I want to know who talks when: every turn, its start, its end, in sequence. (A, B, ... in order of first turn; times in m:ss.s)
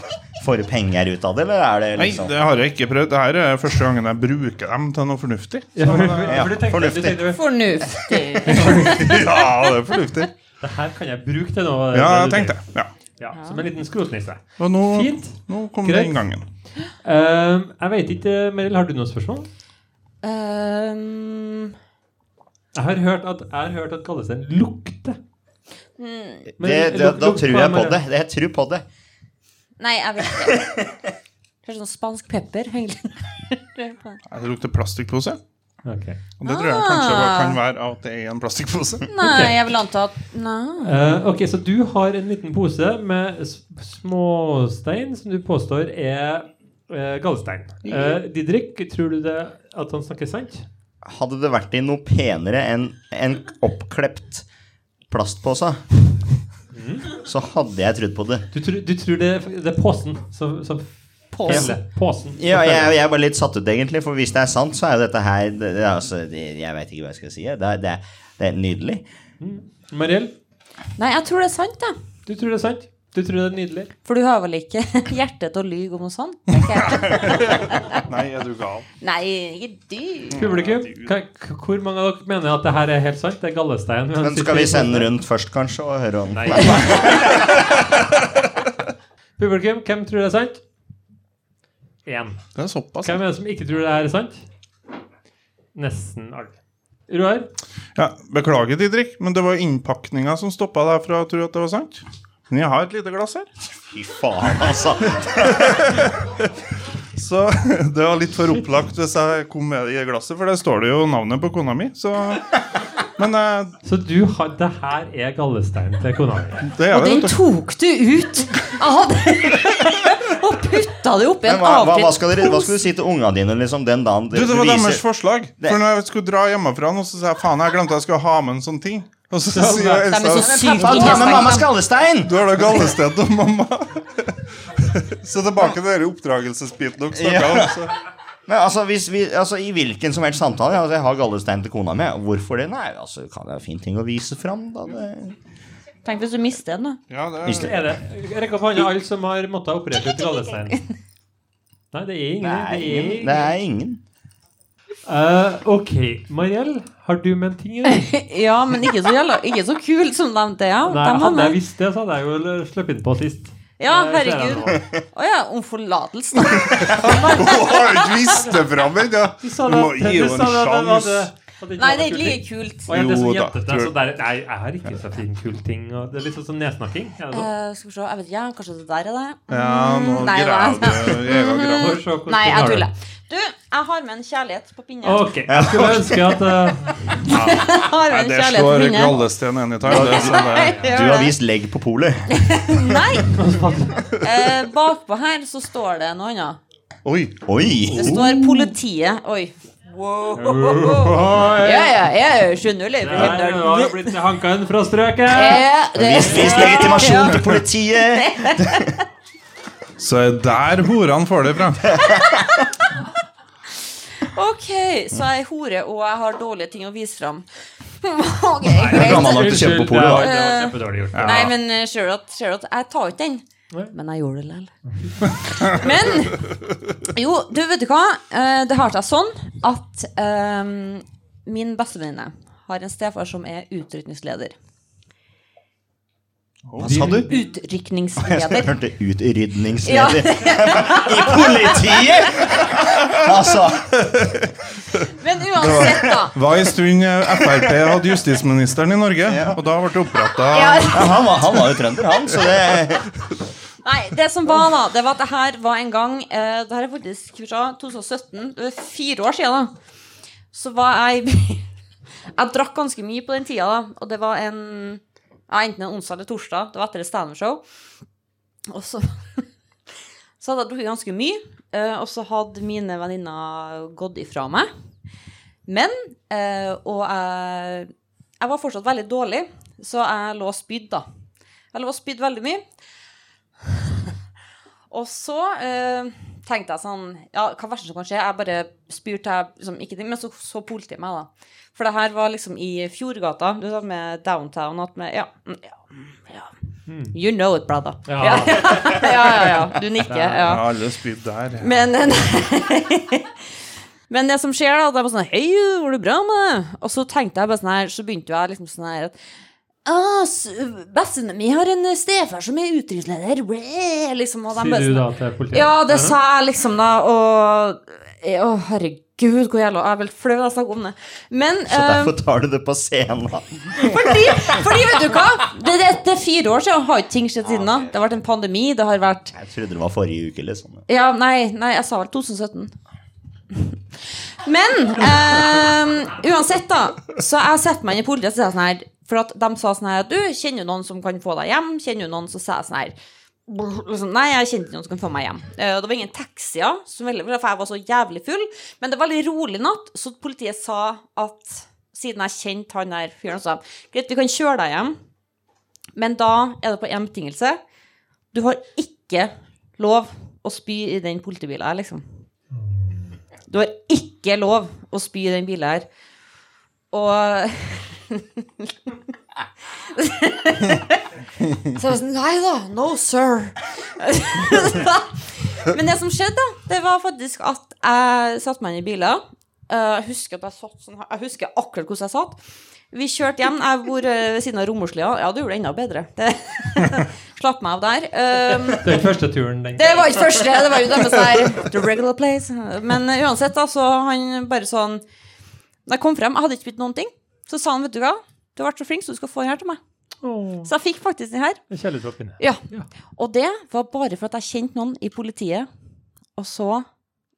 0:00.4-0:02.4 A
0:02.0-0:06.4 B
0:05.8-0:07.4 C
0:06.2-0:07.3 A
0:07.3-0:09.4 D
0:08.4-0:09.2 C
0:08.8-0:10.3 B
0:10.6-0:12.6 C
0:11.9-0:12.9 B
0:13.2-0:16.2 C
0:13.3-0:13.6 D
0:14.6-0:16.4 B
0:17.0-0:19.5 C
0:20.2-0:21.7 D
0:22.7-0:25.2 C
0:26.0-0:26.5 D
0:26.5-0:28.8 A
0:26.6-0:28.0 C
0:29.8-0:30.9 D
0:30.3-0:30.9 A
0:31.6-0:34.2 D
0:34.3-0:35.4 B
0:35.8-0:36.2 C
0:36.4-0:39.1 B
0:36.4-0:37.6 D
0:39.1-0:41.1 D
0:39.2-0:39.6 C
0:40.8-0:50.7 C
0:51.0-0:54.4 A
0:55.1-0:55.8 A
0:56.7-0:57.1 C
0:57.1-0:58.4 A
0:58.5-1:02.9 C
1:01.4-1:01.7 D
1:01.4-1:01.8 A
1:02.4-1:09.0 A
1:09.4-1:10.3 C
1:11.0-1:12.0 D
1:12.2-1:13.9 C
1:14.0-1:18.0 D
1:16.8-1:18.9 B
1:19.0-1:20.4 D
1:20.3-1:21.1 B
1:20.3-1:25.1 C
1:24.2-1:27.5 A
1:26.3-1:27.1 C
1:29.4-1:30.6 C
1:32.0-1:32.4 C
1:32.6-1:33.2 B
1:33.0-1:34.4 C
1:35.7-1:36.6 C
1:37.1-1:37.5 C
1:37.9-1:43.5 B
1:43.8-1:45.9 A
1:45.4-1:46.5 B
1:47.1-1:53.8 B
1:53.8-1:56.7 C
1:56.6-1:57.4 B
1:56.9-2:02.8 D
2:01.4-2:05.0 A
2:04.3-2:11.1 B
2:09.5-2:10.0 C
2:09.6-2:11.7 D
2:10.6-2:12.9 A
2:12.2-2:17.9 B
2:17.1-2:17.8 A
2:18.5-2:25.4 A
2:26.0-2:27.0 D
2:27.1-2:27.8 B
2:27.4-2:27.7 A
2:27.5-2:30.8 C
2:31.9-2:33.5 C
2:32.4-2:34.0 A
2:35.0-2:38.1 C
2:37.8-2:41.6 D
2:40.8-2:44.8 C
2:43.8-2:48.3 D
2:46.5-2:51.3 B
2:48.3-2:48.6 C
2:49.4-2:57.5 C
2:51.8-2:52.9 D
2:52.9-2:53.9 B
2:57.3-3:05.3 D
2:59.5-3:02.0 B
3:01.7-3:02.9 C
3:05.0-3:07.3 C
3:05.5-3:06.4 A
3:07.2-3:09.2 D
3:07.3-3:10.8 B
3:09.8-3:13.1 A
3:09.9-3:11.3 D
3:12.3-3:13.4 D
3:13.3-3:14.1 C
3:14.1-3:16.6 D
3:17.0-3:17.4 B
3:17.4-3:18.3 A
3:17.9-3:18.7 C
3:17.9-3:24.2 D
3:20.3-3:22.0 C
3:23.0-3:25.7 C
3:25.3-3:29.0 D
3:25.9-3:29.0 A
3:26.2-3:27.0 C
3:30.0-3:32.0 B
3:31.8-3:32.4 A
3:32.2-3:32.7 D
3:34.2-3:37.5 D
3:38.0-3:54.5 D
3:38.8-3:41.5 C
3:38.8-3:40.3 A
3:41.1-3:41.5 B
3:44.9-3:45.2 C
3:56.7-3:57.0 B
3:56.8-3:57.3 A
3:56.8-3:57.5 C
3:57.3-3:58.7 D
3:58.2-4:04.0 A
3:59.8-4:02.6 D
4:04.0-4:11.1 B
4:05.1-4:06.4 D
4:07.4-4:07.8 A
4:09.2-4:09.6 A
4:10.4-4:11.4 D
4:10.9-4:13.1 A
4:13.8-4:19.7 D
4:20.5-4:21.6 D
4:22.3-4:27.6 D
4:28.7-4:29.4 D
4:30.4-4:34.7 D
4:35.7-4:41.0 D
4:41.7-4:42.6 D
4:44.9-4:56.5 D
4:56.9-4:57.1 C
4:57.1-5:00.8 D
4:58.1-4:59.3 C
5:00.0-5:00.5 C
5:00.4-5:01.7 B
5:01.6-5:03.4 D
5:04.1-5:09.2 D
5:09.8-5:22.1 D
5:14.5-5:16.2 C
5:21.7-5:24.6 A
5:23.7-5:29.4 D
5:27.4-5:27.9 A
5:29.3-5:30.8 A
5:30.9-5:32.7 D
5:33.5-5:33.8 D
5:34.4-5:43.0 D
5:43.5-5:54.9 D
5:55.9-5:57.6 D
5:58.3-6:02.0 D
6:02.6-6:03.2 C
6:03.5-6:05.8 D
6:06.9-6:08.9 D
6:09.8-6:11.0 D
6:11.6-6:22.4 D
6:22.9-6:29.0 D
6:28.7-6:30.2 C
6:29.8-6:35.0 D
6:35.8-6:39.8 D
6:40.2-6:40.7 C
6:40.6-6:41.6 D
6:41.7-6:42.9 C
6:43.2-6:45.7 D
6:46.4-6:46.8 D